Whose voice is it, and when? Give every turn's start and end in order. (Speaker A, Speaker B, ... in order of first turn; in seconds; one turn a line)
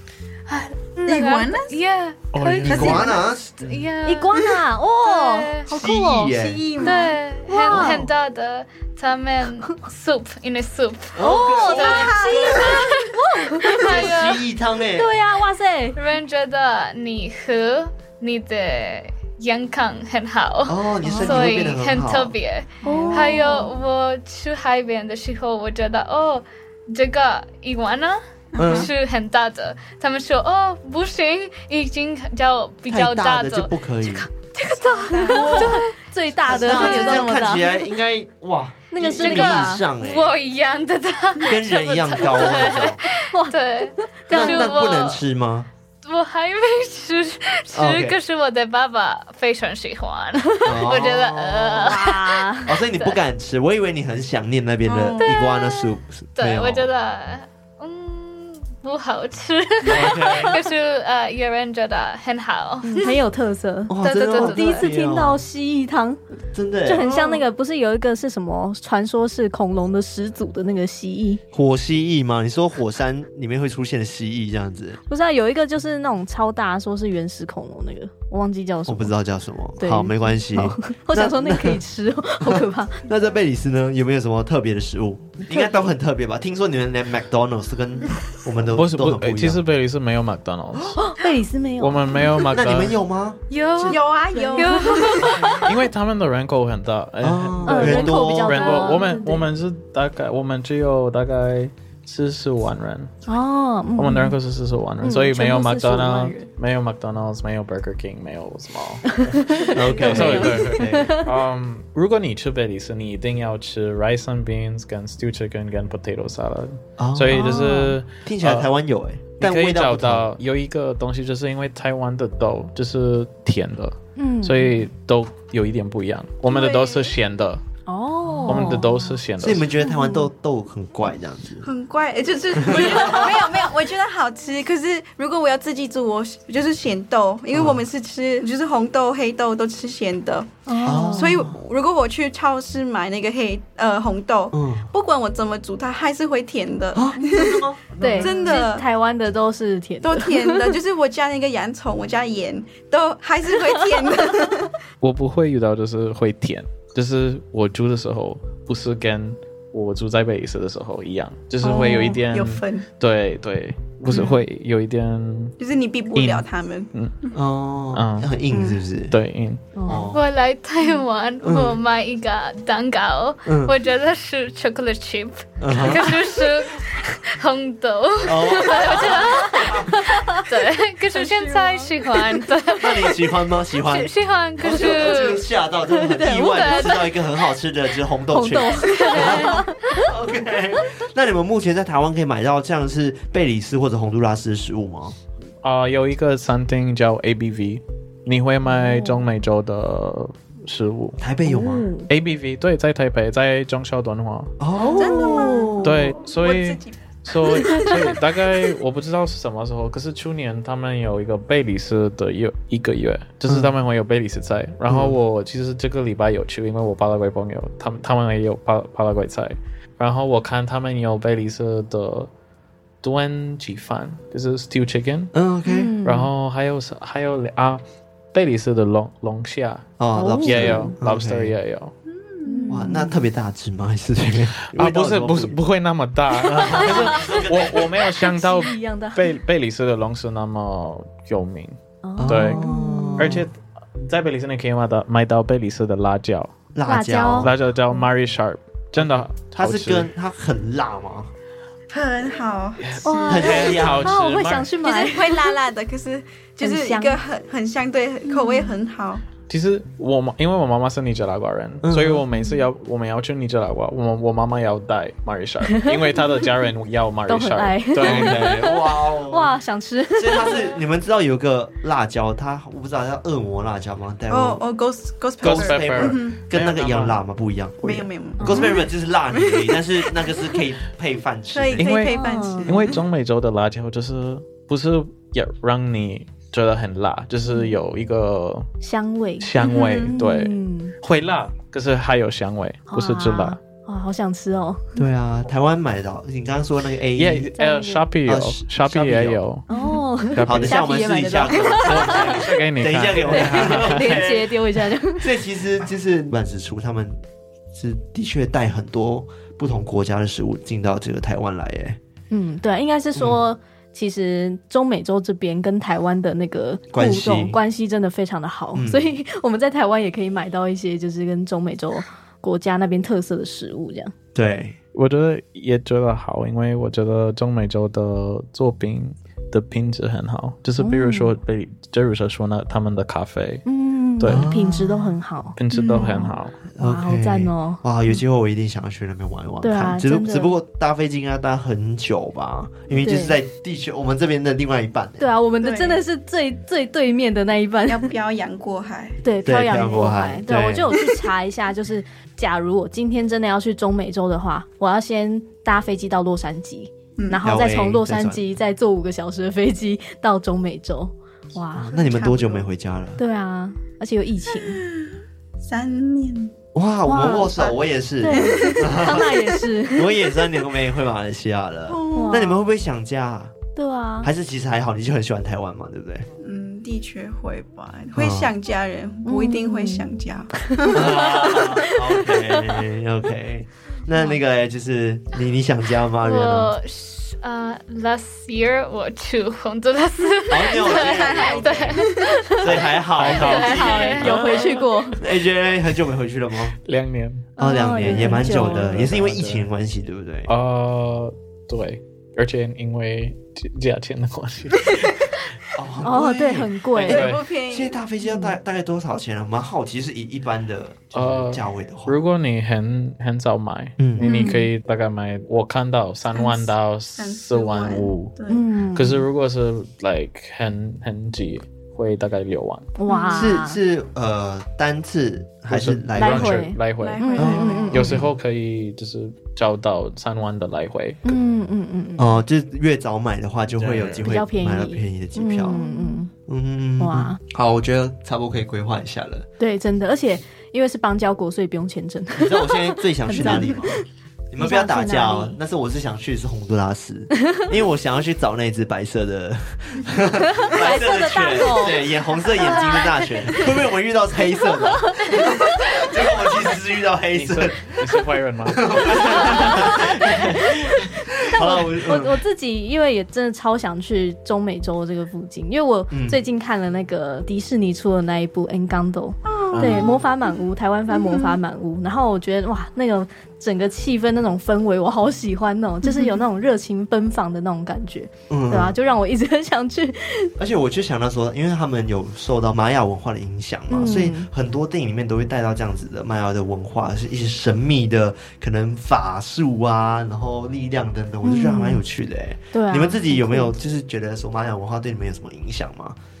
Speaker A: 0.5-5.7
Speaker B: 1.0-1.8
Speaker C: 2.3-3.1
Speaker D: 2.6-3.9
Speaker B: 2.7-3.2
Speaker E: 4.0-8.1
Speaker D: 5.7-6.7
Speaker B: 6.4-7.1
Speaker A: 6.8-14.4
Speaker D: 7.7-8.1
Speaker D: 11.1-12.9
Speaker E: 11.2-14.1
Speaker D: 13.8-15.1
Speaker E: 14.9-16.0
Speaker A: 15.9-35.9
Speaker D: 20.7-22.3
Speaker E: 21.0-21.5
Speaker E: 22.8-23.7
Speaker B: 22.8-23.7
Speaker B: 28.5-28.9
Speaker D: 28.6-28.9
Speaker D: 32.9-34.3
Speaker E: 34.8-37.8
Speaker B: 35.1-35.7
Speaker D: 35.4-35.7
Speaker D: 36.5-40.3
Speaker A: 36.6-37.2
Speaker E: 38.9-39.8
Speaker A: 39.1-45.2
Speaker D: 41.4-43.0
Speaker E: 43.1-44.8
Speaker D: 44.3-45.7
Speaker A: 46.0-53.2
Speaker D: 47.7-48.2
Speaker D: 50.6-52.0
Speaker E: 51.8-52.7
Speaker D: 52.6-56.9
Speaker B: 54.8-55.3
Speaker A: 55.2-63.1
Speaker D: 59.8-60.6
Speaker E: 62.8-66.2
Speaker D: 63.9-65.4
Speaker A: 64.0-64.9
Speaker D: 66.5-67.1
Speaker E: 66.8-71.4
Speaker B: 67.0-67.4
Speaker D: 71.5-75.0
Speaker E: 75.1-79.1
Speaker D: 78.8-81.8
Speaker E: 79.8-83.1
Speaker D: 82.4-89.6
Speaker E: 85.5-85.9
Speaker C: 88.7-91.0
Speaker E: 91.0-92.3
Speaker C: 91.8-93.0
Speaker D: 92.5-94.0
Speaker A: 93.5-95.7
Speaker B: 93.8-95.5
Speaker E: 94.3-95.5
Speaker C: 95.4-103.1
Speaker D: 97.2-98.7
Speaker E: 97.7-99.4
Speaker A: 98.7-99.0
Speaker E: 103.3-104.3
Speaker C: 103.9-118.7
Speaker E: 105.0-106.5
Speaker E: 109.1-111.3
Speaker D: 109.6-111.2
Speaker D: 117.0-117.6
Speaker E: 117.3-118.0
Speaker D: 118.2-120.3
Speaker C: 119.4-127.6
Speaker E: 124.2-124.9
Speaker A: 126.5-127.0
Speaker E: 127.9-129.1
Speaker D: 128.3-128.7
Speaker C: 128.4-129.7
Speaker D: 129.4-131.7
Speaker E: 129.8-130.3
Speaker B: 131.6-147.6
Speaker D: 132.6-133.5
Speaker D: 137.5-137.8
Speaker E: 140.7-141.4
Speaker D: 140.8-141.6
Speaker D: 144.5-144.9
Speaker D: 146.9-148.3
Speaker E: 148.0-150.7
Speaker B: 148.2-148.8
Speaker B: 150.0-154.8
Speaker C: 155.0-165.6
Speaker B: 161.6-162.8
Speaker E: 161.7-162.1
Speaker B: 165.6-167.3
Speaker C: 166.1-167.1
Speaker D: 167.3-169.1
Speaker C: 167.9-168.3
Speaker B: 168.5-168.8
Speaker C: 169.1-169.6
Speaker E: 169.8-170.1
Speaker D: 169.8-170.2
Speaker A: 170.1-185.5
Speaker D: 171.4-171.8
Speaker D: 173.4-173.7
Speaker D: 175.6-176.2
Speaker D: 178.2-179.9
Speaker E: 178.8-180.5
Speaker E: 181.1-182.8
Speaker D: 182.8-195.2
Speaker E: 184.7-185.2
Speaker E: 185.9-187.1
Speaker A: 186.1-187.1
Speaker E: 188.3-190.1
Speaker A: 188.8-190.0
Speaker B: 189.0-189.2
Speaker C: 195.6-201.2
Speaker E: 198.7-199.2
Speaker D: 201.2-201.9
Speaker E: 201.4-202.1
Speaker C: 202.1-204.5
Speaker D: 204.6-206.1
Speaker B: 204.9-208.2
Speaker E: 205.0-205.8
Speaker C: 205.8-222.3
Speaker E: 207.6-208.0
Speaker D: 213.5-213.7
Speaker D: 214.9-215.2
Speaker C: 223.0-225.3
Speaker D: 225.3-225.9
Speaker E: 225.6-226.3
Speaker C: 226.0-227.8
Speaker C: 228.3-229.9
Speaker D: 230.0-231.6
Speaker E: 230.1-230.9
Speaker C: 230.4-231.9
Speaker B: 232.1-232.9
Speaker E: 232.4-233.2
Speaker D: 232.7-235.6
Speaker C: 234.7-242.6
Speaker D: 236.4-238.0
Speaker E: 236.5-239.3
Speaker E: 242.0-243.4
Speaker D: 242.2-243.5
Speaker C: 243.2-246.5
Speaker D: 246.7-247.5
Speaker E: 246.8-248.0
Speaker C: 247.4-250.1
Speaker D: 248.9-251.3
Speaker B: 251.9-253.6
Speaker C: 252.8-254.7
Speaker E: 253.0-255.6
Speaker D: 253.3-254.1
Speaker B: 254.8-259.2
Speaker E: 256.6-257.2
Speaker E: 258.3-258.7
Speaker C: 259.5-268.9
Speaker D: 261.8-262.2
Speaker E: 265.7-266.4
Speaker E: 267.3-270.7
Speaker D: 268.0-269.5
Speaker D: 270.1-274.6
Speaker B: 274.3-276.4
Speaker D: 275.4-281.9
Speaker C: 275.4-277.2
Speaker B: 277.8-280.4
Speaker E: 278.4-278.8
Speaker B: 281.5-283.0
Speaker C: 281.8-288.7
Speaker E: 282.1-282.8
Speaker E: 287.5-287.8
Speaker E: 288.8-290.9
Speaker C: 289.4-293.6
Speaker E: 292.9-295.0
Speaker D: 295.0-297.5
Speaker C: 297.1-299.6
Speaker E: 297.6-298.1
Speaker D: 298.2-299.4
Speaker E: 299.7-302.4
Speaker C: 300.3-300.8
Speaker D: 300.4-307.2
Speaker C: 301.8-304.2
Speaker E: 303.2-305.3
Speaker D: 307.7-312.0
Speaker E: 312.3-324.1
Speaker D: 313.1-313.4
Speaker D: 316.9-317.6
Speaker D: 318.7-319.1
Speaker D: 324.3-324.8
Speaker C: 324.9-333.6
Speaker E: 330.8-331.3
Speaker E: 333.6-337.8
Speaker C: 334.2-334.4
Speaker D: 334.2-335.2
Speaker C: 335.6-336.6
Speaker B: 335.7-336.3
Speaker D: 336.7-345.3
Speaker E: 339.6-340.5
Speaker E: 343.0-343.4
Speaker E: 345.2-348.1
Speaker B: 345.6-346.0
Speaker B: 347.9-349.2
Speaker E: 349.2-361.9
Speaker D: 349.4-350.9
Speaker B: 350.9-351.3
Speaker B: 357.2-357.4
Speaker D: 357.4-358.4
Speaker D: 361.7-363.2
Speaker B: 361.9-362.7
Speaker E: 363.2-364.8
Speaker B: 364.6-366.5
Speaker D: 366.7-373.5
Speaker E: 367.1-367.6
Speaker B: 367.5-367.8
Speaker E: 368.2-370.3
Speaker B: 368.3-369.2
Speaker B: 371.9-372.6
Speaker E: 372.1-372.5
Speaker E: 373.7-374.3
Speaker D: 374.2-376.3
Speaker B: 376.4-381.8
Speaker D: 378.1-378.5
Speaker E: 379.2-380.1
Speaker E: 380.7-382.2
Speaker D: 380.9-386.7
Speaker A: 386.2-392.6
Speaker D: 390.5-396.8
Speaker B: 390.8-392.3
Speaker E: 392.2-392.7
Speaker C: 393.0-394.5
Speaker A: 393.3-394.6
Speaker E: 393.6-395.2
Speaker C: 396.8-397.5
Speaker E: 397.6-399.1
Speaker D: 397.6-400.5
Speaker C: 398.1-399.6
Speaker C: 400.5-405.1
Speaker D: 405.7-412.2
Speaker E: 406.0-407.3
Speaker C: 407.0-407.4
Speaker B: 407.0-408.0
Speaker C: 411.1-418.3
Speaker D: 414.0-414.2
Speaker E: 414.2-414.7
Speaker B: 416.3-418.6
Speaker E: 418.5-419.2
Speaker C: 418.9-422.9
Speaker E: 423.0-423.8
Speaker B: 423.1-423.5
Speaker D: 423.3-426.6
Speaker C: 425.7-431.2
Speaker E: 426.1-428.1
Speaker B: 427.0-428.2
Speaker D: 427.4-428.3
Speaker E: 431.2-432.4
Speaker D: 432.2-435.8
Speaker C: 433.8-434.3
Speaker E: 434.2-436.3
Speaker B: 435.7-436.2
Speaker D: 436.5-439.4
Speaker E: 437.0-437.4
Speaker E: 439.6-444.0
Speaker D: 442.4-443.9
Speaker D: 444.5-462.4
Speaker E: 444.6-445.6
Speaker E: 450.6-453.1
Speaker A: 452.6-453.4
Speaker C: 457.3-460.5
Speaker E: 461.5-480.5
Speaker D: 466.1-466.4
Speaker B: 469.4-471.6
Speaker C: 469.7-470.2
Speaker B: 476.0-476.4
Speaker D: 478.5-478.9
Speaker D: 480.6-496.2
Speaker E: 483.9-484.5
Speaker E: 491.4-492.0
Speaker E: 492.7-493.7